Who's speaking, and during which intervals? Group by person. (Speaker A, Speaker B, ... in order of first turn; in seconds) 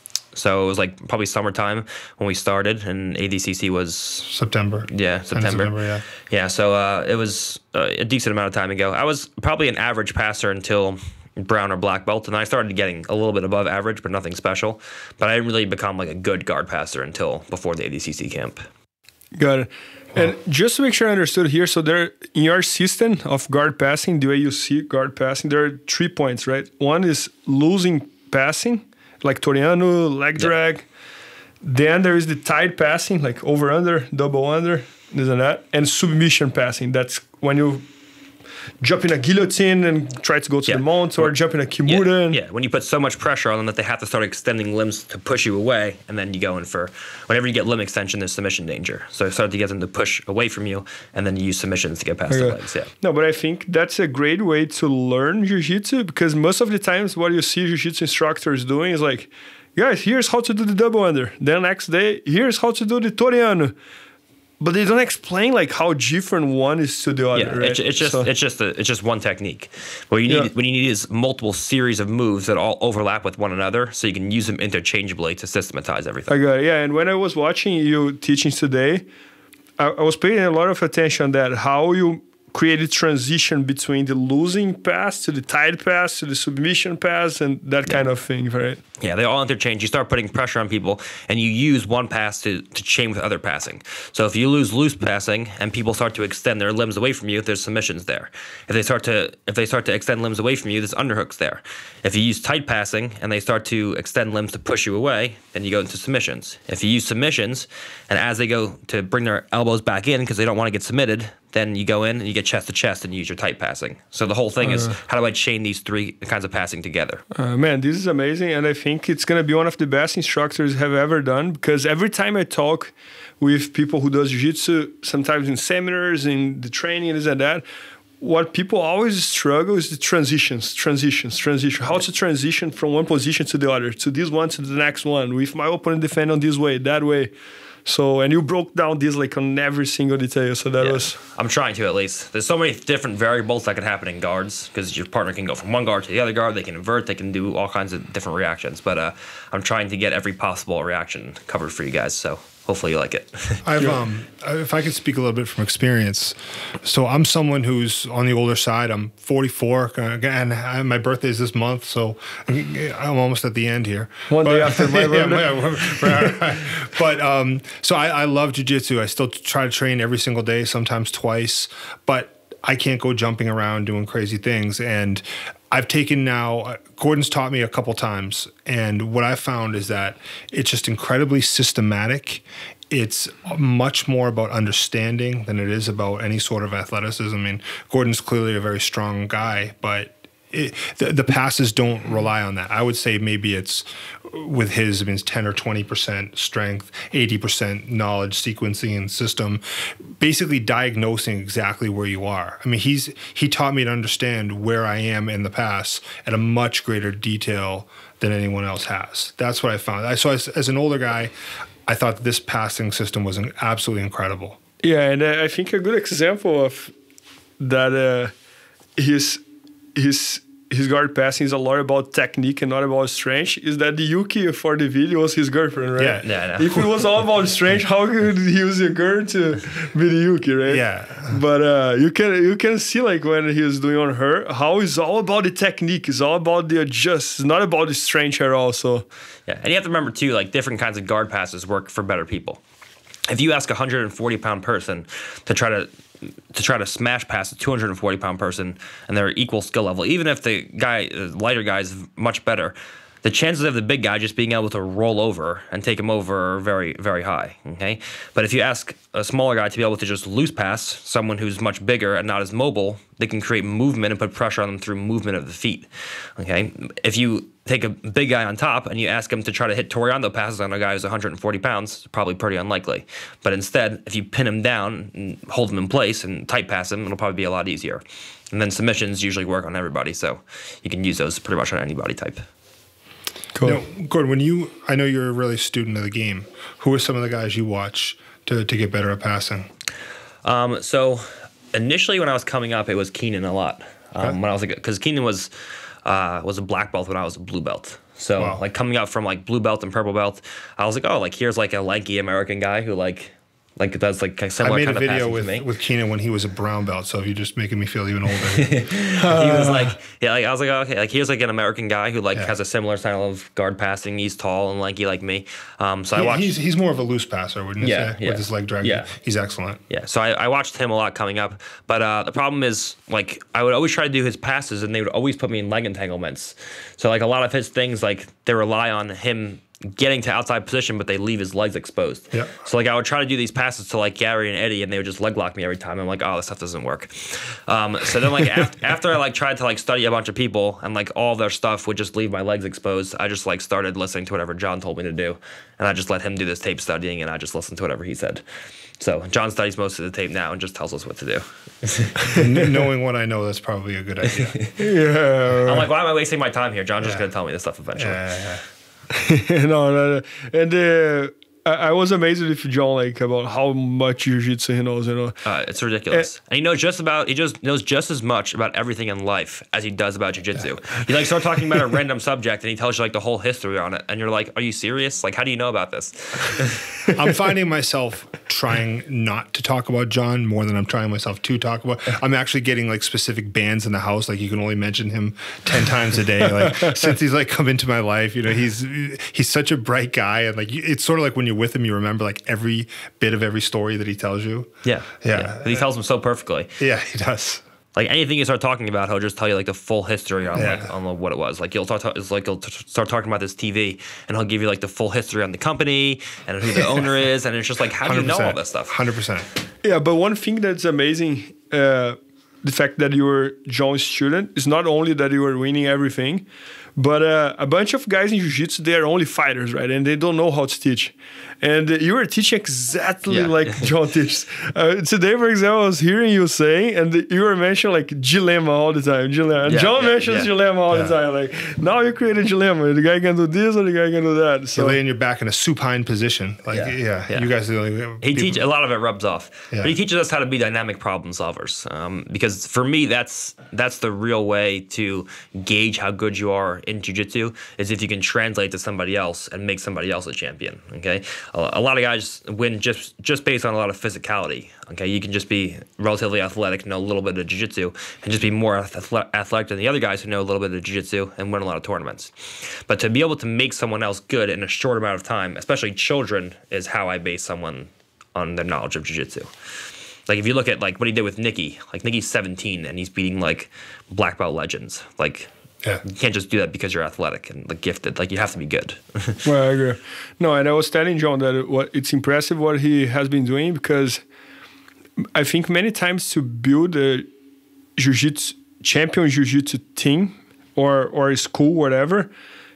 Speaker A: 0.3-4.3, 4.9-18.6, 40.7-41.3, 41.9-52.9, 67.3-76.3, 89.0-117.2, 140.8-153.7, 226.2-226.9, 239.5-242.6, 243.3-282.4, 290.4-295.5, 296.0-305.6, 308.5-316.5, 317.8-319.1, 319.9-348.4, 349.0-352.3, 354.4-354.7, 355.5-358.3, 365.4-376.8, 394.8-396.7, 397.9-409.0, 423.3-423.8, 429.7-430.5, 436.7-437.5, 438.2-469.5, 470.3-475.5, 476.0-479.4
Speaker B: 4.3-6.0, 153.6-211.3, 211.9-214.6, 226.0-226.8, 230.7-231.4, 283.6-289.7, 304.6-308.9, 316.1-319.8, 352.3-354.6, 357.9-358.6, 377.1-395.8, 396.8-397.6, 400.5-400.9, 406.8-407.0, 408.0-409.5, 430.9-431.1, 434.8-438.6
Speaker C: 19.3-30.9, 31.6-37.8, 38.8-42.4, 52.3-63.7, 64.6-68.3, 76.3-79.0, 79.8-88.8, 114.6-115.0, 117.3-127.6, 128.2-137.3, 137.8-141.2, 164.3-166.3, 214.8-216.9, 217.6-218.3, 219.0-219.4, 219.9-239.1, 283.5-283.8, 309.2-309.9, 354.8-355.9, 359.1-365.4, 386.6-387.0, 409.8-416.4, 416.9-435.0, 479.4-484.2, 485.3-487.3, 488.0-492.3